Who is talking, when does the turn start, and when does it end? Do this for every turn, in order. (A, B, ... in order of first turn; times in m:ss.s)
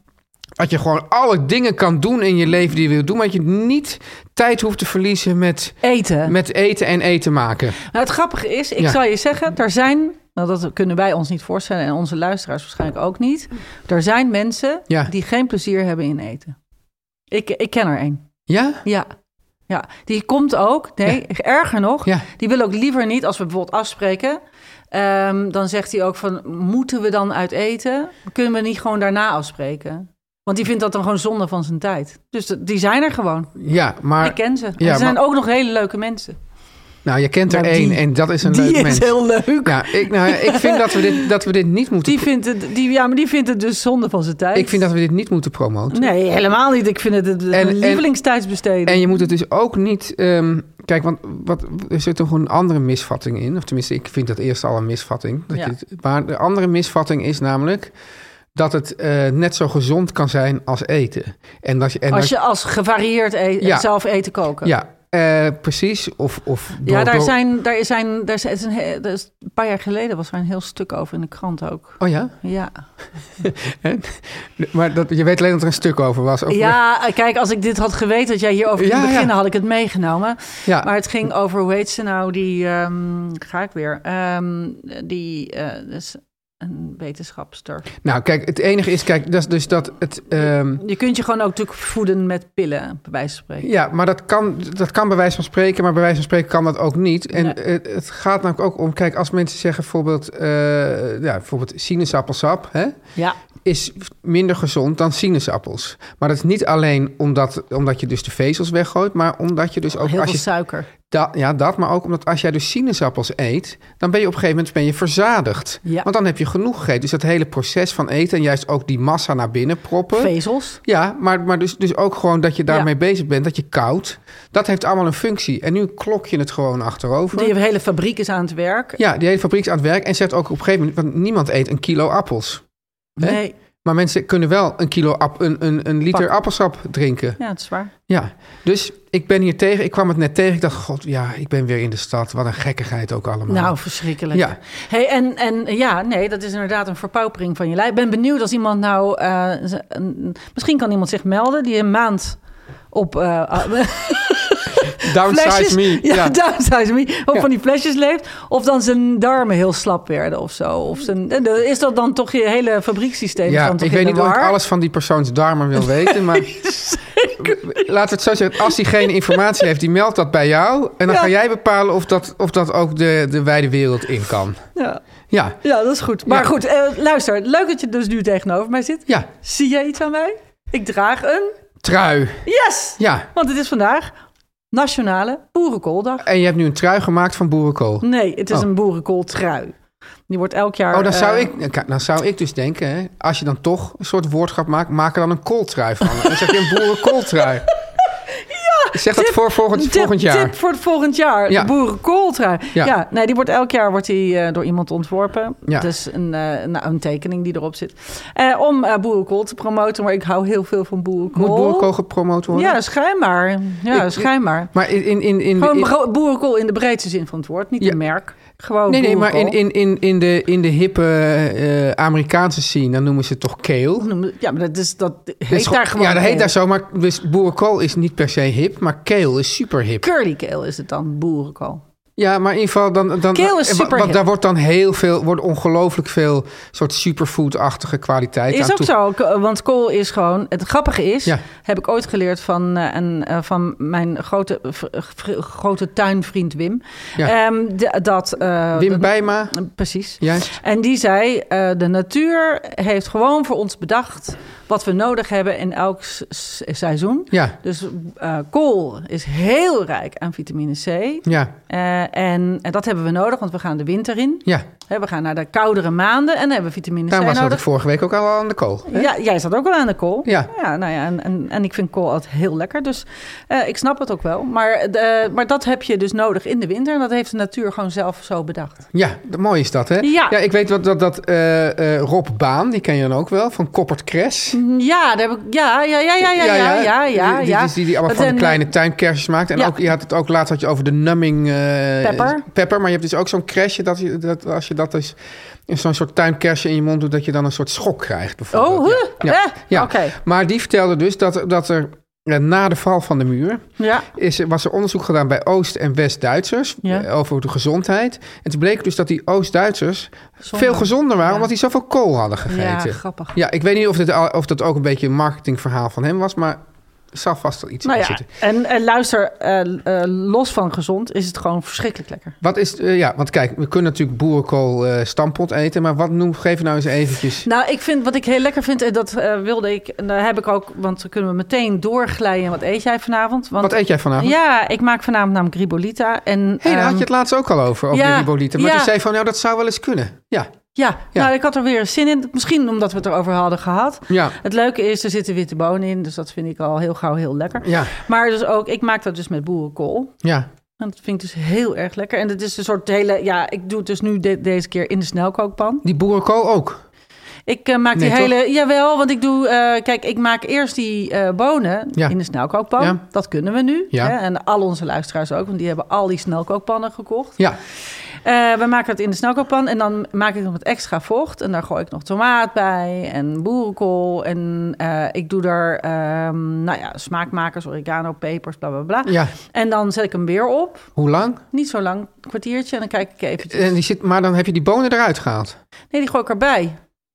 0:00.6-0:07.8 A
0:05.8-0:06.3 B
0:07.9-0:16.6 B
0:17.3-0:18.2 B
0:18.5-0:18.8 A
0:19.7-0:24.4 B
0:24.9-0:33.5 B
0:33.6-0:35.2 A
0:34.2-0:36.4 B
0:37.0-0:42.3 A
0:37.5-0:41.2 B
0:42.0-0:44.8 B
0:44.5-0:46.1 A
0:45.9-0:49.1 B
0:47.5-0:48.0 A
0:48.8-0:57.9 A
0:58.5-1:02.3 A
1:02.1-1:04.7 B
1:03.6-1:03.9 A
1:04.6-1:07.3 A
1:06.8-1:12.7 B
1:12.0-1:12.3 A
1:13.4-1:16.8 A
1:16.5-1:27.9 B
1:18.8-1:19.3 A
1:28.0-1:30.8 A
1:30.7-1:33.7 B
1:33.6-1:43.0 A
1:43.6-1:50.4 A
1:50.0-1:50.9 B
1:51.0-2:00.3 A
2:00.1-2:00.8 B
2:00.8-2:07.5 A
2:07.3-2:09.0 B
2:09.0-2:12.6 A
2:13.2-2:13.5 B
2:13.2-2:17.4 A
2:17.4-2:17.9 B
2:18.1-2:23.8 A
2:23.5-2:32.4 B
2:32.9-2:44.5 B
2:35.0-2:36.4 A
2:43.4-2:46.6 A
2:46.0-2:47.8 B
2:47.4-2:54.6 A
2:54.8-2:55.0 B
2:55.3-2:55.6 A
2:55.6-3:01.5 B
3:01.8-3:02.4 A
3:02.4-3:04.1 B
3:03.0-3:03.3 A
3:04.7-3:06.2 B
3:06.2-3:08.6 A
3:08.0-3:09.8 B
3:10.3-3:11.5 B
3:10.9-3:17.7 A
3:16.2-3:17.4 B
3:18.3-3:31.9 B
3:18.9-3:20.6 A
3:31.3-3:32.8 A
3:32.5-3:34.7 B
3:33.9-3:35.9 A
3:35.6-3:39.6 B
3:38.9-3:44.1 A
3:44.0-3:46.5 B
3:45.5-3:50.0 A
3:50.0-3:51.8 B
3:52.2-3:58.9 A
3:53.3-3:54.2 B
3:58.5-4:27.6 B
4:08.7-4:09.5 A
4:10.2-4:10.5 A
4:21.2-4:21.5 A
4:27.1-4:29.1 A
4:28.9-4:38.8 B
4:38.9-4:44.6 A
4:40.0-4:40.3 B
4:44.5-4:48.7 B
4:46.2-4:55.2 A
4:52.0-4:52.4 B
4:55.7-5:16.6 A
4:58.5-5:00.2 B
5:03.8-5:04.1 B
5:10.4-5:11.5 B
5:12.5-5:13.3 B
5:17.1-5:18.2 A
5:17.8-5:22.4 B
5:22.4-5:27.4 A
5:27.4-5:37.1 B
5:33.6-5:34.4 A
5:36.6-5:40.5 A
5:37.9-5:38.9 B
5:40.7-5:50.1 B
5:44.1-5:44.4 A
5:47.6-5:47.9 A
5:50.2-5:50.5 A
5:50.8-5:55.8 B
5:55.8-5:56.8 A
5:57.5-6:07.4 B
5:58.0-5:58.3 A
6:08.2-6:20.9 B
6:19.0-6:19.3 A
6:21.0-6:21.4 A
6:21.5-6:23.7 B
6:23.5-6:25.6 A
6:25.9-6:26.8 B